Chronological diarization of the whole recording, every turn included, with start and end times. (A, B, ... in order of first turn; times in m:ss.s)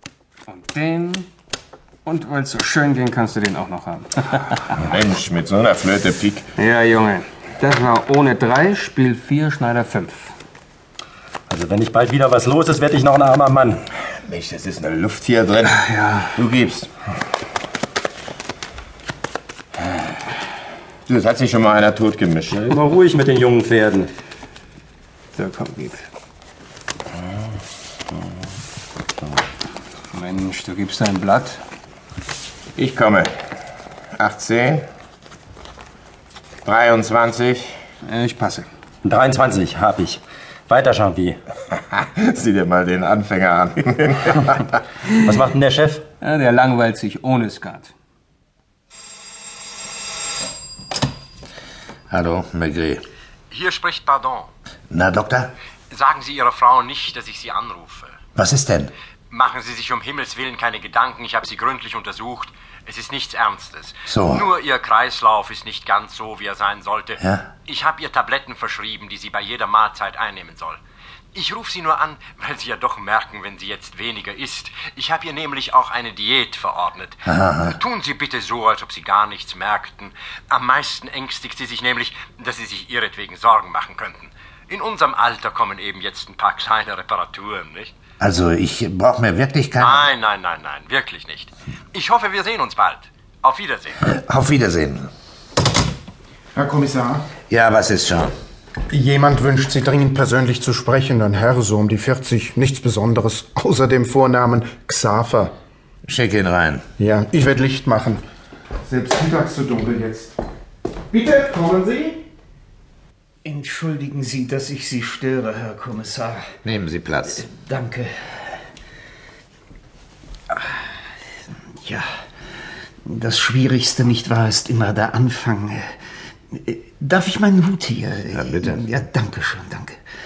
0:00.5-0:01.3 A
0:02.1-0:04.6 A
0:04.8-0:06.5 B
0:06.6-0:10.3 A
0:11.5-0:13.8 C
0:14.3-0:16.9 B
0:21.1-0:22.8 B
0:22.7-0:24.1 C
0:25.4-0:26.0 A
0:30.1-0:31.6 A
0:32.8-0:33.3 B
0:34.2-0:34.9 B
0:36.6-0:37.7 B
0:38.0-0:38.7 A
0:39.0-0:41.4 C
0:41.9-0:44.6 B
0:45.2-0:46.1 C
0:46.2-0:47.9 A
0:52.1-0:53.0 D
0:53.5-0:54.5 E
0:54.9-0:55.5 D
0:55.9-0:58.2 E
0:58.4-0:58.9 D
0:59.3-1:10.8 E
1:04.1-1:04.4 D
1:11.3-1:28.0 E
1:17.3-1:17.7 D
1:28.2-1:30.1 D
1:29.8-1:34.0 E
1:34.1-1:35.1 D
1:36.6-1:37.3 F
1:37.5-1:38.3 D
1:38.9-1:45.5 F
1:46.1-1:46.8 D
1:47.0-1:48.2 F
1:48.9-1:50.4 F
1:51.1-1:52.2 F
1:53.4-1:56.5 G
1:56.6-1:57.4 D
1:57.3-1:58.1 G
2:03.1-2:05.9 G
2:06.5-2:10.0 G
2:08.3-2:08.8 D